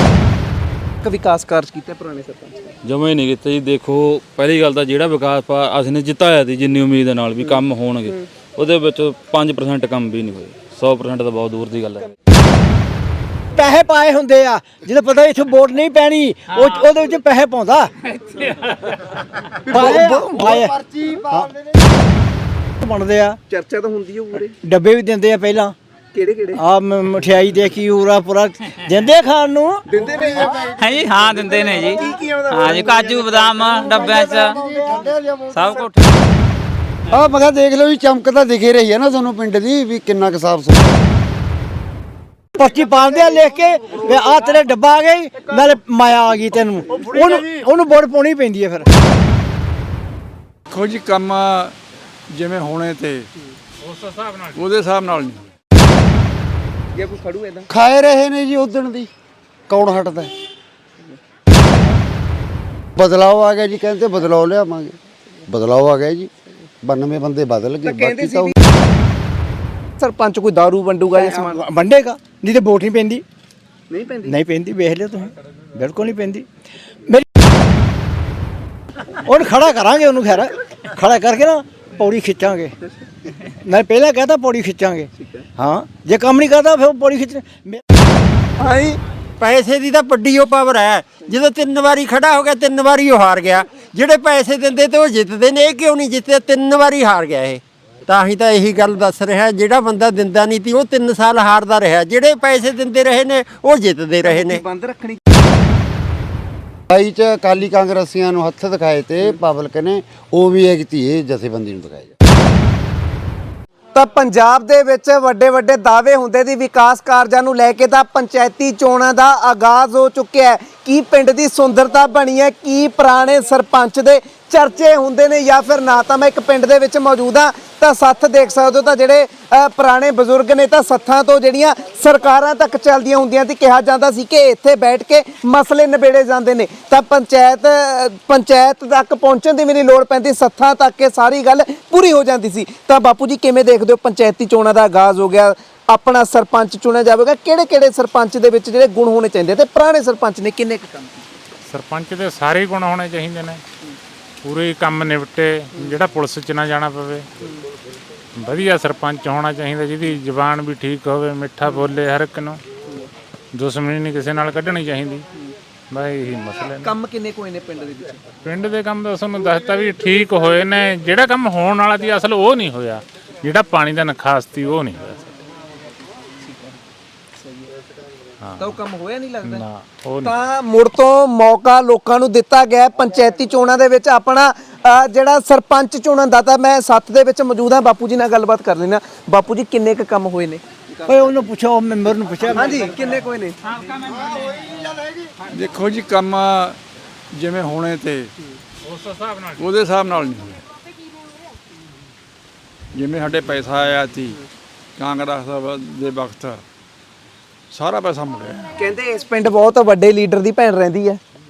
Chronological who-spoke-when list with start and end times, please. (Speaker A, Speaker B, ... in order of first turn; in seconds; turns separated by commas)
Speaker A: 1.0-2.8, Speaker B: 2.9-12.0, Speaker A: 7.4-8.2, Speaker C: 13.6-17.9, Speaker C: 19.7-21.5, Speaker D: 19.7-22.0, Speaker A: 19.7-20.1, Speaker C: 22.8-23.4, Speaker A: 23.5-24.5, Speaker C: 24.6-25.8, Speaker A: 26.1-26.6, Speaker C: 26.6-29.8, Speaker A: 29.9-30.6, Speaker E: 30.5-34.6, Speaker A: 31.4-33.6, Speaker C: 33.7-35.1, Speaker D: 34.5-35.5, Speaker E: 35.5-35.9, Speaker A: 35.6-35.9, Speaker D: 37.1-41.0, Speaker C: 42.5-48.9, Speaker F: 50.7-51.8, Speaker F: 52.3-53.3, Speaker G: 53.8-54.5, Speaker F: 54.5-55.5, Speaker A: 57.0-57.7, Speaker D: 57.7-59.1, Speaker D: 59.7-60.3, Speaker D: 63.0-66.3, Speaker D: 66.8-68.5, Speaker A: 67.8-68.5, Speaker A: 70.0-71.6, Speaker C: 71.1-73.2, Speaker A: 73.9-74.4, Speaker C: 74.3-76.5, Speaker C: 79.1-82.7, Speaker C: 83.6-87.8, Speaker A: 85.2-85.5, Speaker A: 88.6-89.0, Speaker H: 89.4-104.6, Speaker A: 104.2-105.2, Speaker D: 106.9-112.1, Speaker A: 114.0-151.3, Speaker G: 151.7-153.6, Speaker G: 154.4-157.3, Speaker G: 158.4-162.6, Speaker G: 163.5-165.2, Speaker G: 165.9-166.9, Speaker A: 166.8-168.2, Speaker G: 168.4-175.3, Speaker A: 176.4-176.7, Speaker A: 177.4-177.7, Speaker G: 178.4-178.8, Speaker A: 178.6-179.6, Speaker G: 179.4-180.3, Speaker A: 180.2-191.1, Speaker C: 191.1-193.0, Speaker A: 192.5-193.6, Speaker D: 194.1-195.3, Speaker F: 195.5-196.8, Speaker F: 197.3-198.3, Speaker G: 198.8-199.6, Speaker F: 199.6-200.6, Speaker F: 202.9-204.4, Speaker F: 205.0-206.6, Speaker F: 207.7-208.7, Speaker A: 208.8-211.2